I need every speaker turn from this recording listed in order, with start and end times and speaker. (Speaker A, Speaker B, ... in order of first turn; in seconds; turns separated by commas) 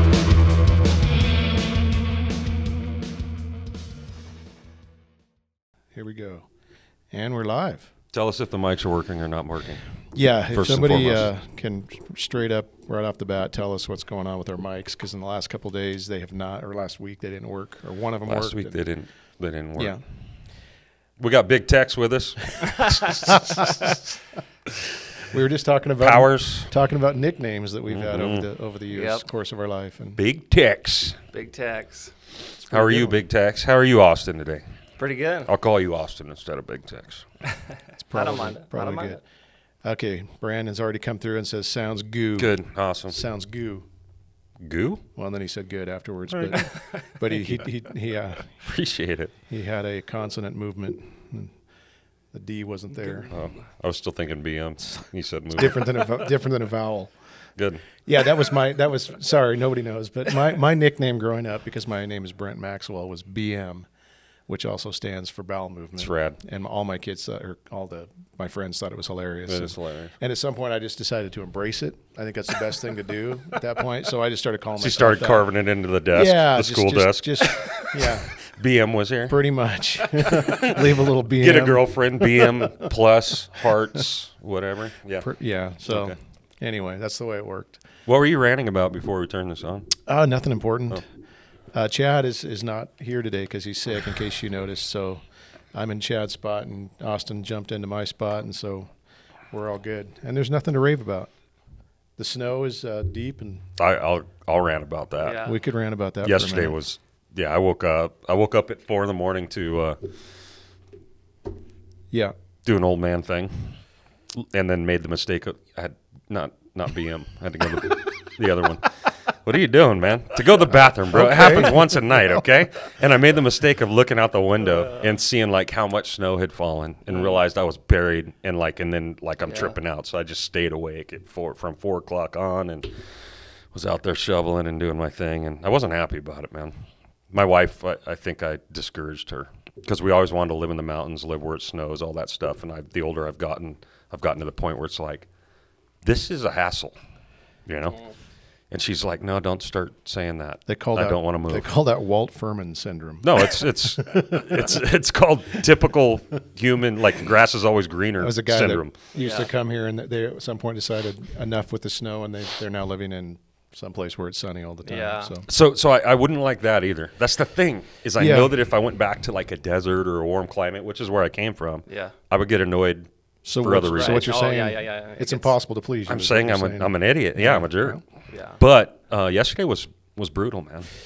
Speaker A: 5.9-6.5, Speaker A: 7.1-7.9, Speaker B: 8.1-9.8, Speaker A: 10.1-18.8, Speaker B: 10.5-11.2, Speaker B: 18.3-20.0, Speaker B: 21.2-23.9, Speaker C: 22.6-22.9, Speaker A: 23.3-24.0, Speaker A: 25.3-30.2, Speaker B: 26.0-26.7, Speaker B: 27.9-28.5, Speaker C: 28.9-29.2, Speaker B: 30.1-31.2, Speaker C: 31.3-32.1, Speaker A: 32.7-33.2, Speaker B: 32.7-34.6, Speaker C: 35.0-35.5, Speaker B: 35.5-37.2, Speaker A: 38.0-39.2, Speaker C: 38.1-39.2, Speaker A: 39.8-42.5, Speaker B: 42.4-43.2, Speaker A: 43.1-43.9, Speaker B: 44.6-45.0, Speaker A: 45.1-48.5, Speaker B: 46.3-46.7, Speaker B: 48.6-49.3, Speaker A: 49.5-51.5, Speaker A: 52.3-53.3, Speaker C: 53.0-53.3, Speaker B: 53.3-56.1, Speaker A: 55.5-57.1, Speaker B: 57.6-57.8, Speaker A: 58.0-63.9, Speaker A: 64.5-75.5, Speaker B: 66.0-66.4, Speaker B: 69.5-70.1, Speaker B: 74.8-79.4, Speaker A: 76.1-78.3, Speaker A: 79.3-82.9, Speaker B: 80.1-85.3, Speaker A: 85.2-87.8, Speaker B: 85.8-86.1, Speaker B: 88.0-89.9, Speaker A: 90.0-91.0, Speaker A: 91.7-95.2, Speaker A: 95.7-98.9, Speaker A: 99.5-101.3, Speaker A: 102.2-103.6, Speaker B: 103.8-105.4, Speaker C: 105.2-105.6, Speaker A: 105.4-106.8, Speaker B: 106.2-110.1, Speaker B: 112.6-113.8, Speaker B: 114.3-133.1, Speaker A: 121.1-121.9, Speaker C: 127.1-127.4, Speaker C: 129.4-129.8, Speaker B: 133.7-136.8, Speaker B: 137.3-145.3, Speaker B: 146.0-146.9, Speaker B: 147.7-148.0, Speaker B: 148.7-151.7, Speaker A: 150.7-154.8, Speaker B: 153.2-158.9, Speaker A: 158.2-165.5, Speaker C: 159.2-159.5, Speaker C: 164.8-165.4, Speaker B: 165.5-173.1, Speaker A: 168.2-168.6, Speaker C: 171.9-172.1, Speaker A: 173.4-178.0, Speaker B: 173.6-174.3, Speaker C: 173.8-175.5, Speaker B: 176.1-178.0, Speaker C: 178.3-178.6, Speaker B: 178.6-180.9